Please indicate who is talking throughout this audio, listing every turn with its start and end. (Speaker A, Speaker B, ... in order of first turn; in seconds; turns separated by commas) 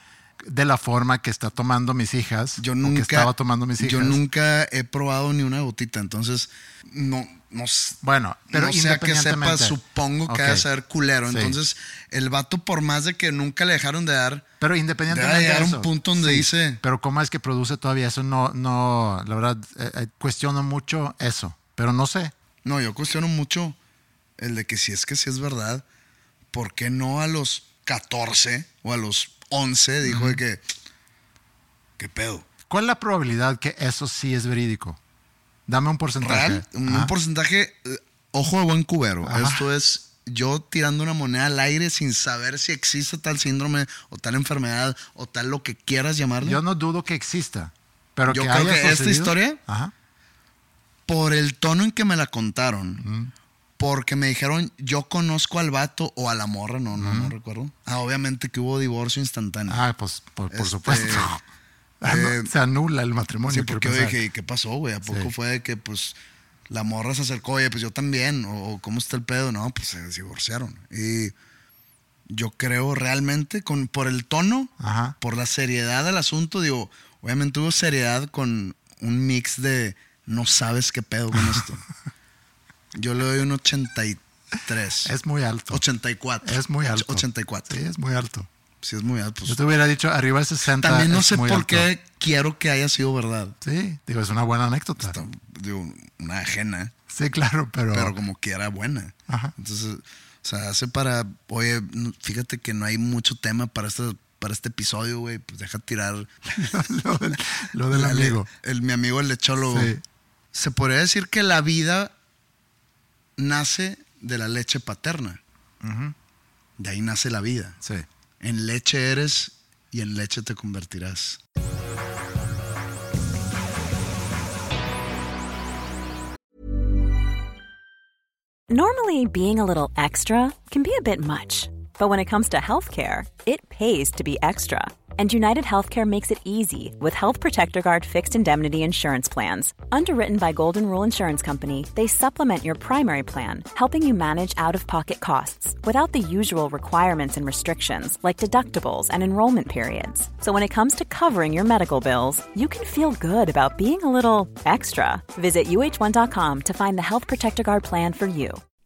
Speaker A: 0.4-4.2, Speaker B: 2.6-8.0, Speaker A: 8.0-10.6, Speaker B: 8.5-14.4, Speaker A: 11.3-11.6, Speaker A: 14.6-22.3, Speaker B: 15.1-16.8, Speaker B: 22.6-23.8, Speaker B: 24.4-25.8, Speaker B: 26.5-30.6, Speaker A: 30.0-30.4, Speaker B: 32.0-32.5, Speaker A: 32.7-35.0, Speaker A: 35.7-37.1, Speaker B: 36.2-46.6, Speaker A: 39.2-39.6, Speaker A: 46.4-49.9, Speaker B: 48.3-49.6, Speaker B: 51.1-53.0, Speaker A: 53.0-53.3, Speaker B: 53.8-59.8, Speaker A: 57.0-57.3, Speaker A: 59.7-61.4, Speaker B: 60.5-61.3, Speaker A: 62.0-64.2, Speaker B: 62.0-62.5, Speaker B: 63.5-66.2, Speaker A: 65.0-65.3, Speaker B: 66.7-71.3, Speaker B: 72.3-81.8, Speaker A: 74.8-75.2, Speaker A: 81.3-81.6, Speaker B: 82.9-85.1, Speaker A: 85.0-85.8, Speaker B: 85.7-87.8, Speaker A: 86.4-88.5, Speaker B: 88.8-89.6, Speaker A: 89.5-91.9, Speaker B: 90.7-93.5, Speaker A: 93.6-95.2, Speaker B: 95.0-96.9, Speaker A: 97.1-98.1, Speaker B: 97.9-110.0, Speaker A: 106.6-108.5, Speaker A: 109.7-110.0, Speaker B: 110.5-112.1, Speaker B: 113.4-115.4, Speaker A: 115.8-116.1, Speaker B: 116.8-117.8, Speaker B: 118.4-121.4, Speaker C: 128.7-158.6